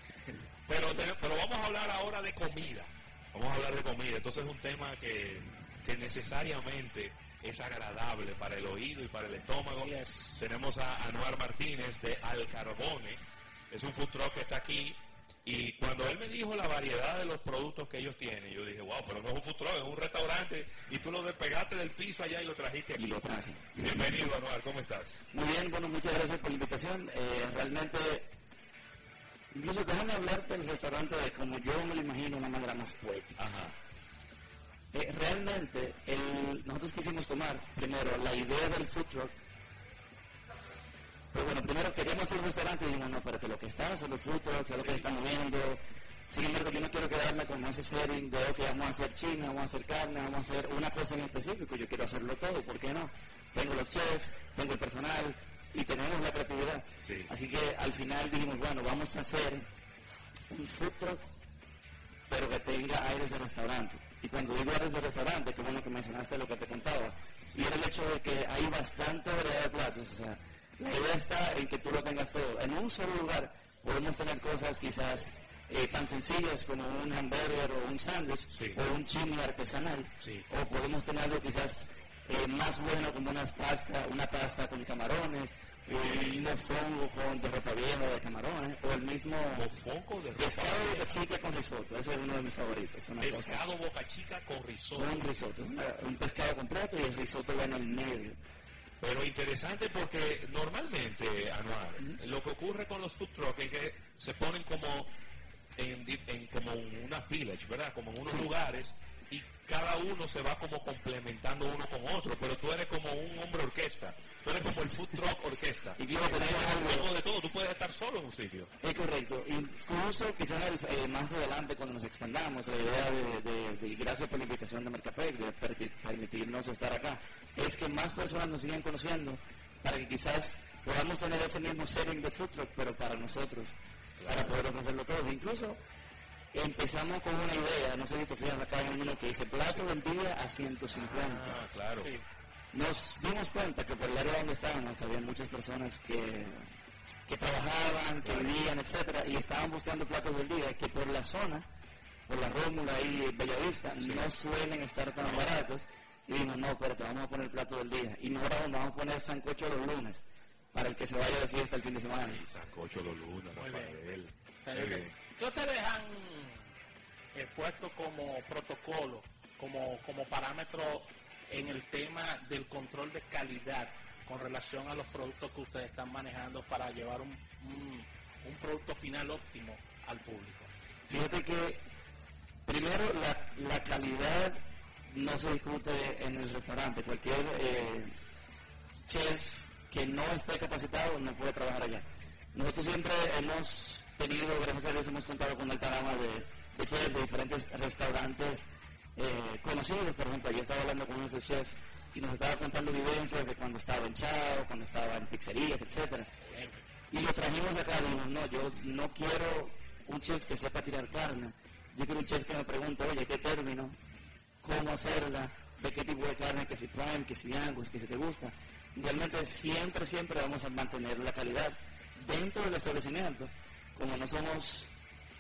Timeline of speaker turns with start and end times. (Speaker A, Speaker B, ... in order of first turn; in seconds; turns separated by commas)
Speaker A: 0.3-23.2, Speaker B: 9.7-10.5, Speaker C: 23.0-24.2, Speaker A: 23.8-25.2, Speaker C: 25.3-28.3, Speaker C: 29.5-33.4, Speaker A: 33.4-33.8, Speaker C: 34.9-39.3, Speaker C: 41.3-59.7, Speaker A: 57.0-57.3, Speaker C: 60.5-61.2, Speaker C: 62.3-89.7, Speaker A: 78.5-78.8, Speaker A: 80.2-80.5, Speaker A: 85.9-86.5, Speaker A: 89.5-91.2, Speaker C: 90.4-93.6, Speaker A: 93.2-95.2, Speaker C: 95.0-98.4, Speaker A: 99.0-105.1, Speaker A: 105.8-118.7, Speaker C: 116.0-117.1, Speaker C: 118.8-135.8, Speaker A: 134.2-134.6, Speaker C: 136.5-141.6, Speaker A: 140.9-142.1, Speaker B: 142.0-142.2, Speaker C: 142.7-146.7, Speaker C: 147.3-151.7, Speaker A: 148.2-148.6, Speaker C: 152.3-162.4, Speaker A: 154.0-154.3, Speaker A: 155.2-155.5, Speaker A: 162.2-165.1, Speaker B: 163.6-164.0, Speaker B: 164.6-166.6, Speaker B: 167.3-180.7, Speaker C: 181.1-181.8, Speaker C: 182.7-188.1, Speaker C: 189.1-206.3, Speaker B: 206.5-206.8, Speaker C: 207.1-214.0, Speaker C: 214.6-224.9